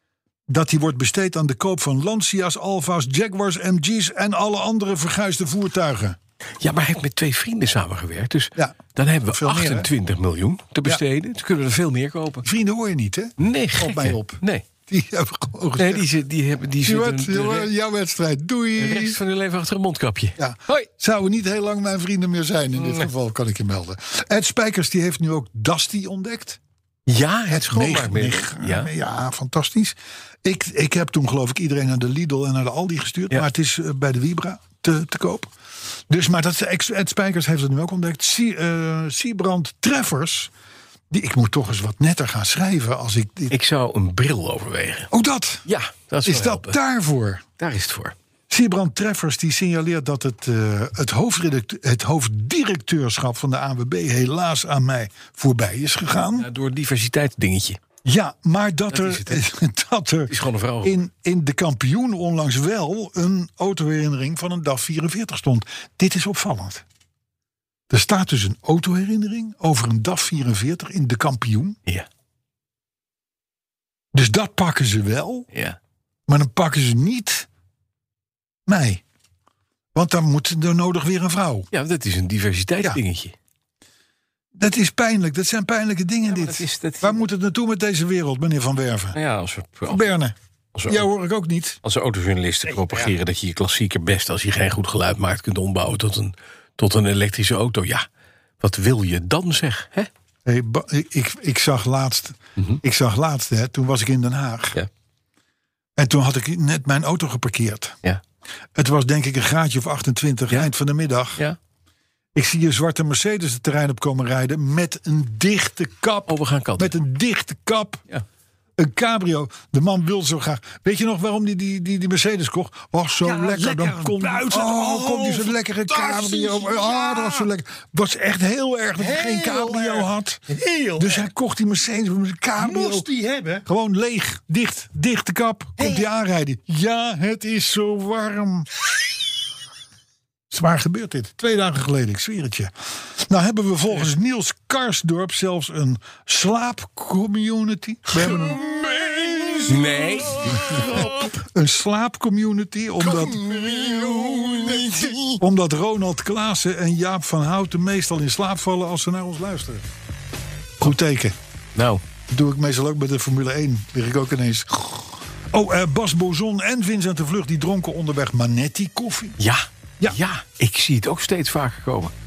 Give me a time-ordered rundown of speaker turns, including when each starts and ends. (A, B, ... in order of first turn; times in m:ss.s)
0:00.5-0:06.2 A
0:06.6-0:12.5 B
0:09.3-0:09.9 A
0:12.4-0:16.1 A
0:13.4-0:14.6 B
0:15.8-0:17.7 B
0:16.8-0:19.2 A
0:18.8-0:20.9 B
0:20.4-0:26.6 A
0:22.8-0:23.1 B
0:27.1-0:28.9 B
0:27.5-0:35.5 A
0:36.1-0:40.5 A
0:41.1-0:43.6 A
0:43.5-0:45.1 B
0:45.1-0:45.7 A
0:45.7-0:46.8 B
0:46.2-0:47.4 A
0:47.6-0:48.2 B
0:48.5-0:56.5 A
0:56.4-0:57.8 B
0:58.0-1:06.8 A
0:58.9-0:59.4 B
1:00.3-1:01.0 B
1:07.9-1:11.8 A
1:14.1-1:15.5 A
1:15.5-1:15.8 B
1:16.3-1:17.5 A
1:18.7-1:19.0 A
1:19.9-1:21.7 A
1:21.7-1:23.4 B
1:24.6-1:29.2 A
1:26.3-1:27.3 B
1:29.1-1:30.1 B
1:29.9-1:30.4 A
1:30.8-1:31.1 B
1:30.9-1:31.8 A
1:31.8-1:38.0 B
1:38.6-1:40.1 B
1:40.5-1:44.8 A
1:46.0-1:48.0 A
1:48.8-1:51.4 A
1:52.4-1:58.0 A
1:56.3-1:56.9 B
1:58.8-2:13.1 A
2:03.2-2:07.5 C
2:09.0-2:11.2 C
2:12.6-2:13.7 C
2:13.7-2:18.7 A
2:15.8-2:16.0 C
2:20.5-2:39.9 A
2:29.7-2:31.4 B
2:33.9-2:35.3 B
2:40.8-2:41.4 A
2:41.8-2:42.0 B
2:42.3-2:49.4 A
2:49.4-2:52.1 B